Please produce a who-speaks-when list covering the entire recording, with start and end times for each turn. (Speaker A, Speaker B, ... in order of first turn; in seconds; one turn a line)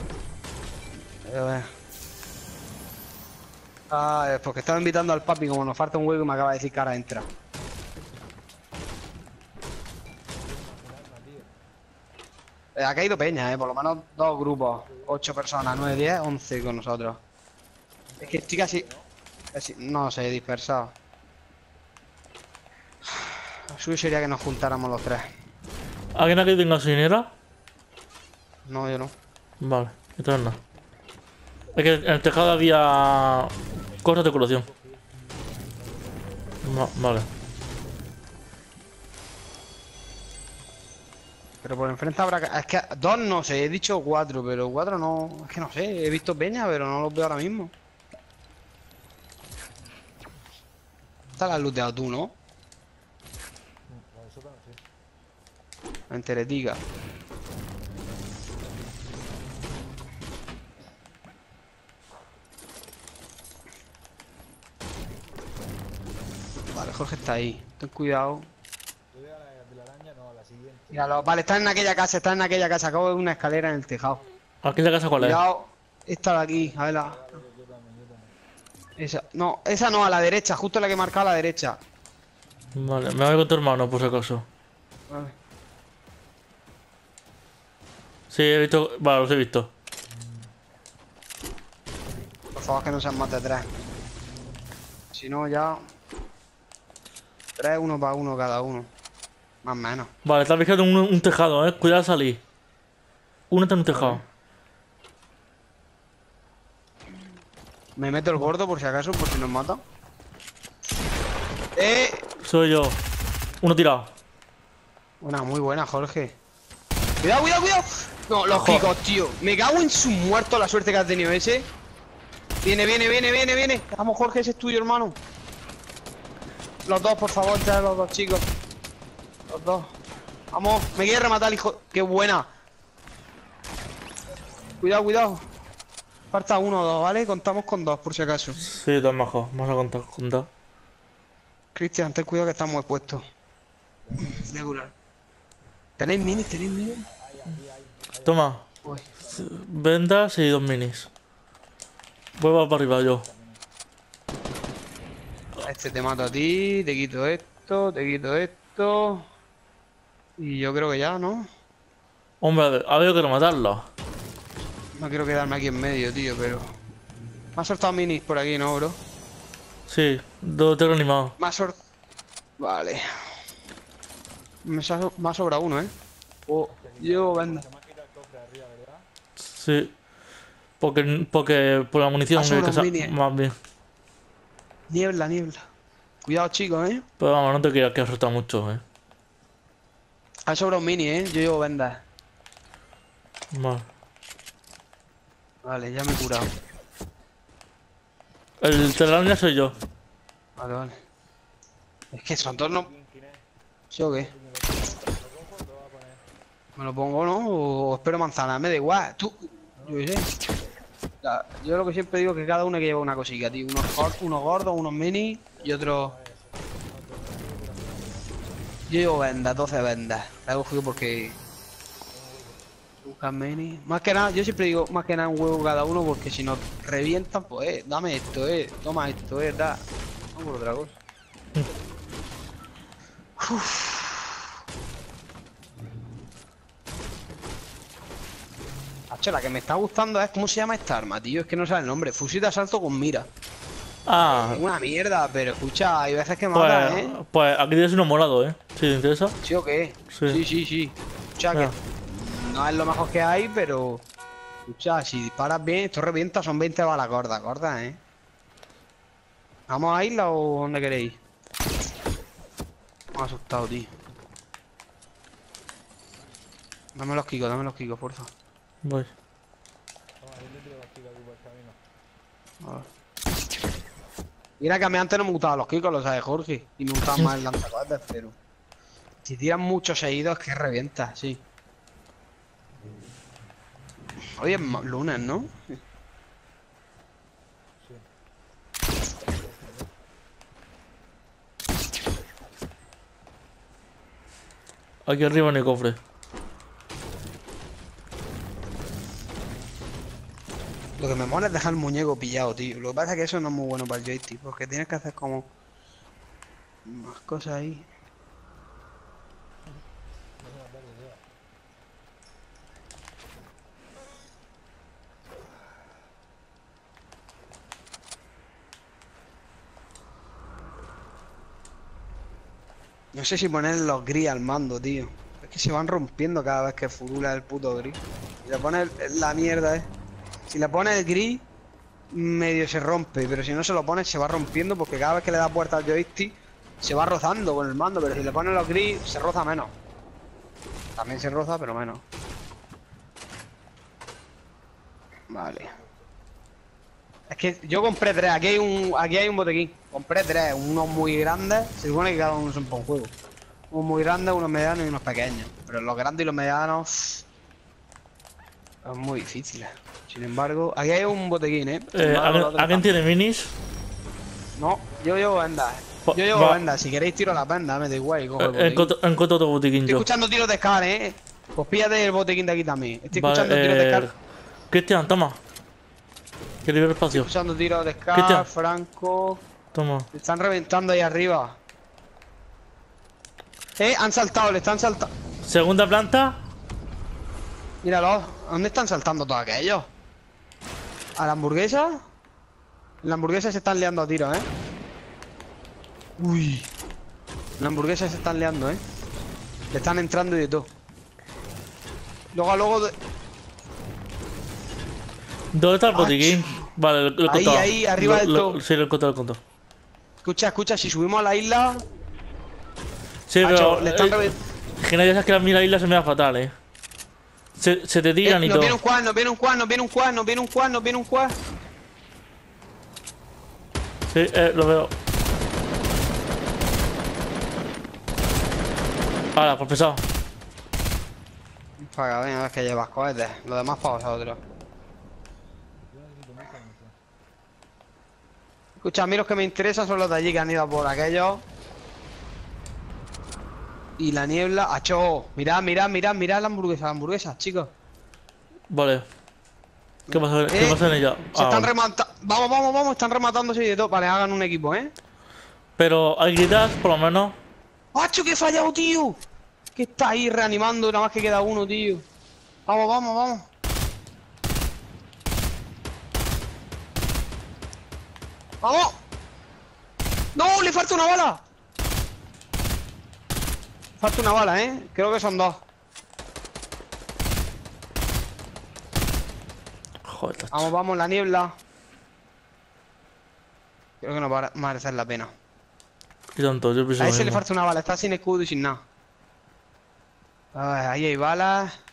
Speaker A: 1.3-1.7
Speaker A: 3.9-7.3
Speaker B: 10.4-11.5
Speaker A: 12.8-17.2
Speaker A: 18.2-18.8
Speaker B: 18.2-18.9
Speaker A: 19.5-20.9
Speaker A: 23.2-25.2
Speaker C: 26.1-27.3
Speaker A: 28.7-29.1
Speaker C: 29.6-30.6
Speaker C: 31.7-34.6
Speaker B: 34.7-35.0
Speaker C: 36.6-37.3
Speaker A: 41.6-47.7
Speaker A: 51.4-52.3
Speaker B: 53.9-54.8
Speaker A: 56.1-56.8
Speaker A: 66.7-68.5
Speaker B: 69.1-70.9
Speaker A: 70.9-74.2
Speaker C: 74.6-75.4
Speaker A: 75.2-77.2
Speaker B: 76.8-78.3
Speaker A: 79.0-81.8
Speaker C: 82.7-84.4
Speaker C: 88.3-89.7
Speaker A: 92.5-93.7
Speaker A: 95.1-95.8
Speaker A: 97.6-98.9
Speaker A: 99.6-100.1
Speaker C: 100.2-102.4
Speaker C: 103.5-104.2
Speaker A: 103.9-104.2
Speaker A: 108.0-109.8
Speaker A: 111.8-112.2
Speaker C: 112.4-113.0
Speaker C: 113.6-114.1
Speaker A: 115.2-116.3
Speaker A: 117.2-121.6
Speaker C: 118.5-118.8
Speaker A: 122.6-125.2
Speaker A: 126.9-128.4
Speaker A: 129.5-129.9
Speaker A: 130.5-132.4
Speaker A: 134.8-135.4
Speaker A: 136.3-138.7
Speaker C: 138.7-140.5
Speaker A: 141.7-143.2
Speaker B: 144.1-144.4
Speaker A: 144.2-144.9
Speaker A: 146.0-147.0
Speaker B: 147.3-148.3
Speaker C: 148.2-148.6
Speaker C: 149.3-151.1
Speaker C: 152.4-153.2
Speaker B: 153.3-153.5
Speaker A: 155.6-159.2
Speaker A: 160.4-161.4
Speaker C: 162.4-163.8
Speaker A: 165.0-166.6
Speaker A: 167.6-169.0
Speaker C: 169.9-171.3
Speaker A: 171.4-171.7
Speaker A: 172.6-173.0
Speaker A: 174.6-175.9
Speaker A: 176.5-177.7
Speaker B: 176.9-179.0
Speaker C: 179.5-179.9
Speaker C: 180.8-183.5
Speaker A: 182.3-183.1
Speaker A: 184.9-185.6
Speaker A: 186.2-187.0
Speaker C: 187.2-188.8
Speaker A: 190.5-192.0
Speaker C: 193.5-193.8
Speaker A: 195.6-196.5
Speaker C: 198.6-199.8
Speaker A: 200.6-200.9
Speaker A: 202.1-202.9
Speaker B: 202.8-203.4
Speaker A: 203.9-204.3
Speaker B: 204.3-206.2
Speaker A: 206.8-210.3
Speaker A: 211.2-216.2
Speaker B: 215.8-218.3
Speaker A: 218.9-221.3
Speaker B: 222.1-222.6
Speaker A: 223.0-229.8
Speaker A: 230.3-230.9
Speaker A: 233.4-234.2
Speaker A: 239.1-243.3
Speaker C: 244.1-244.6
Speaker A: 244.3-247.2
Speaker C: 246.5-249.3
Speaker A: 249.4-254.0
Speaker C: 250.1-250.4
Speaker A: 254.7-257.9
Speaker A: 259.7-261.1
Speaker A: 263.1-263.9
Speaker A: 266.9-268.3
Speaker C: 268.8-269.1
Speaker B: 270.2-271.8
Speaker A: 274.6-278.3
Speaker A: 279.2-281.4
Speaker A: 284.4-285.6
Speaker B: 289.4-289.9
Speaker C: 295.1-296.0
Speaker A: 301.0-305.4
Speaker A: 306.9-307.9
Speaker B: 310.4-311.2
Speaker A: 323.1-329.8
Speaker A: 330.5-331.4
Speaker A: 332.1-339.7
Speaker A: 341.0-342.0
Speaker A: 345.3-345.7
Speaker A: 347.3-353.1
Speaker A: 353.7-357.2
Speaker A: 358.8-362.9
Speaker C: 361.9-363.5
Speaker A: 364.6-368.9
Speaker C: 366.1-366.6
Speaker C: 368.4-370.1
Speaker A: 369.9-374.1
Speaker C: 373.1-374.1
Speaker C: 374.7-375.4
Speaker C: 376.6-377.3
Speaker A: 377.1-379.4
Speaker C: 378.1-378.4
Speaker C: 379.7-380.1
Speaker A: 380.1-381.5
Speaker A: 383.8-385.1
Speaker C: 385.4-386.4
Speaker A: 387.8-389.9
Speaker A: 391.2-392.0
Speaker A: 393.0-394.5
Speaker A: 396.2-396.7
Speaker A: 397.6-398.8
Speaker A: 399.7-400.7
Speaker A: 402.3-402.9
Speaker C: 405.5-409.4
Speaker A: 405.9-406.7
Speaker A: 407.3-408.6
Speaker A: 410.2-411.8
Speaker C: 413.3-414.2
Speaker A: 413.4-414.4
Speaker C: 414.8-416.5
Speaker C: 417.6-418.8
Speaker A: 418.2-421.3
Speaker C: 424.1-424.9
Speaker C: 429.4-430.0
Speaker A: 431.8-434.4
Speaker B: 435.9-436.9
Speaker A: 438.8-441.4
Speaker A: 444.0-447.7
Speaker C: 448.7-449.0
Speaker A: 450.1-450.8
Speaker C: 450.1-451.7
Speaker A: 451.3-454.9
Speaker C: 455.8-457.3
Speaker A: 457.9-459.1
Speaker A: 459.7-462.0
Speaker A: 462.7-463.4
Speaker A: 468.6-468.9
Speaker A: 470.4-471.4
Speaker A: 474.0-475.6
Speaker C: 480.1-480.7
Speaker A: 480.5-481.5
Speaker A: 484.0-485.3
Speaker C: 486.4-487.4
Speaker A: 487.0-488.8
Speaker A: 490.5-491.7